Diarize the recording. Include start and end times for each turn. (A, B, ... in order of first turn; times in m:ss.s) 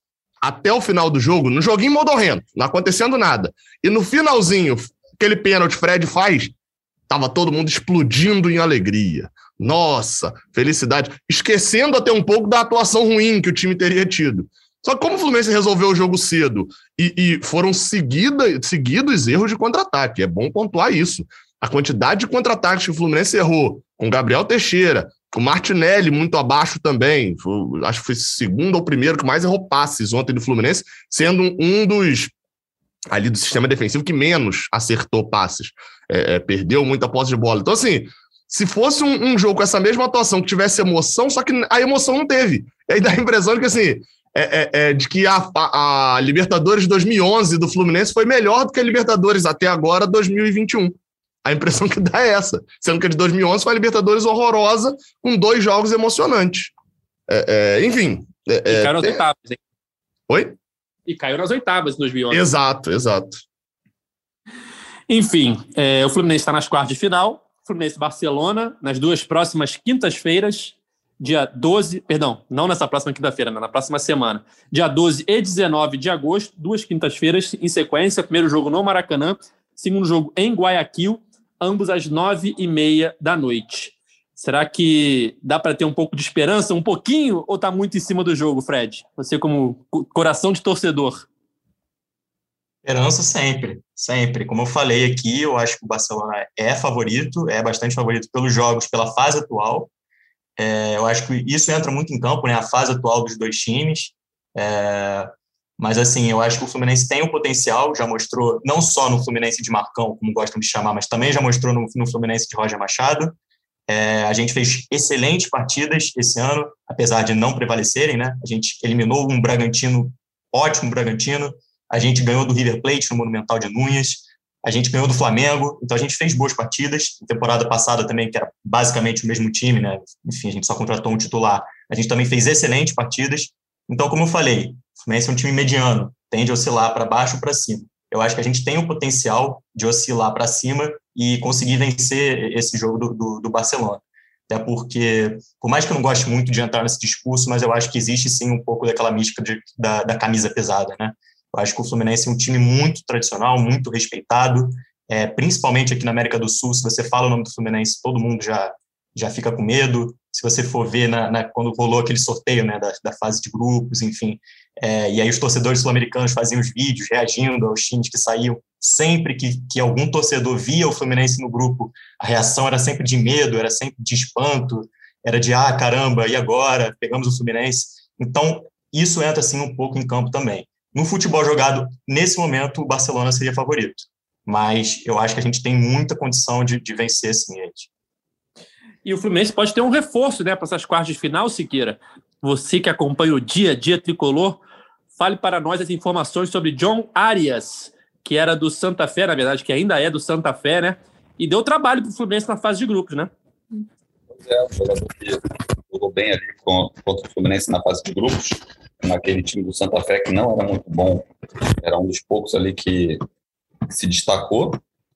0:00.4-0:06.5 A
0:07.1-0:32.3 A
0:33.1-0:56.7 A
0:57.3-0:59.2 A
0:58.7-0:59.6 B
1:00.3-1:00.6 A
1:01.1-1:02.4 B
1:02.3-1:03.4 A
1:05.1-1:31.3 B
1:32.8-1:39.9 C
1:40.6-1:53.4 C
1:53.9-3:07.9 C
3:09.0-3:14.6 B
3:15.2-3:23.3 B
3:24.3-3:31.3 D
3:31.8-3:33.2 D
3:33.9-3:34.8 D